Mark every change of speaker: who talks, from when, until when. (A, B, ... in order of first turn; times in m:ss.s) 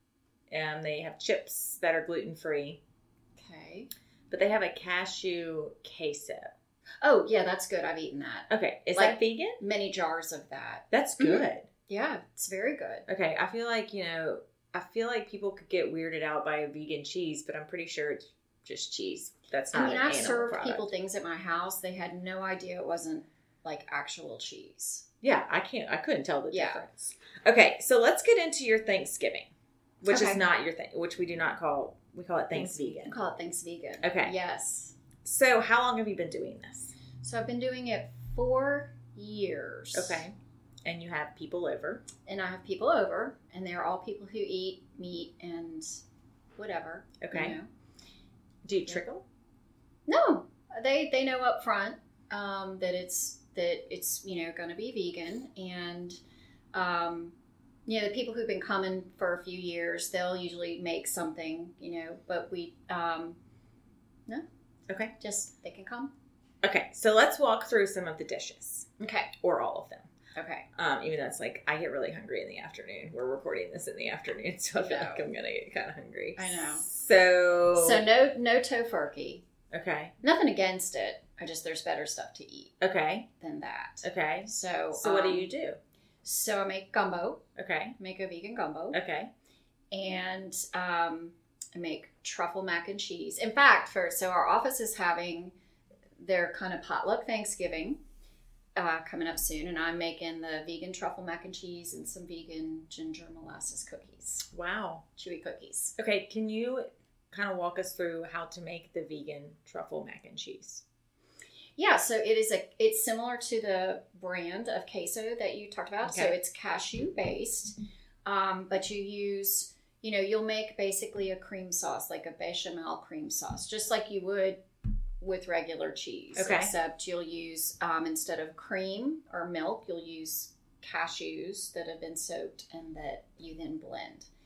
0:00.5-0:02.8 A
0:03.4-0:03.9 B
0:04.3-0:06.5 A
0:07.0-0:13.1 B
0:08.5-0:09.6 A
0:10.9-0:11.7 A
0:13.1-0:20.9 A
0:19.7-0:25.1 B
0:25.2-0:29.5 A
0:26.5-0:26.8 B
0:30.0-0:33.2 A
0:30.1-0:30.4 B
0:32.5-0:35.0 B
0:34.0-0:34.4 A
0:35.2-0:36.9 A
0:37.2-0:40.3 B
0:39.9-0:40.3 A
0:40.8-0:42.0 A
0:42.2-0:46.0 B
0:46.6-0:47.7 B
0:47.2-0:47.6 A
0:48.6-0:49.2 A
0:50.1-0:56.2 B
0:56.7-0:57.4 B
0:57.9-1:03.4 B
1:05.2-1:06.1 B
1:06.6-1:10.1 A
1:09.0-1:09.3 B
1:10.4-1:10.7 B
1:10.8-1:18.0 A
1:14.8-1:15.3 B
1:16.4-1:16.9 B
1:17.8-1:19.4 B
1:19.7-1:20.1 A
1:20.2-1:22.7 B
1:22.8-1:23.3 A
1:23.4-1:25.5 B
1:24.0-1:25.8 A
1:26.2-1:27.4 B
1:27.6-1:28.0 A
1:28.0-1:29.0 B
1:28.9-1:29.3 A
1:29.9-1:35.5 B
1:36.2-1:38.0 B
1:38.8-1:44.5 B
1:44.5-1:45.0 A
1:45.2-1:46.0 B
1:46.0-1:50.8 A
1:51.8-2:04.6 B
1:56.0-1:56.4 A
2:05.2-2:14.3 B
2:06.4-2:06.7 A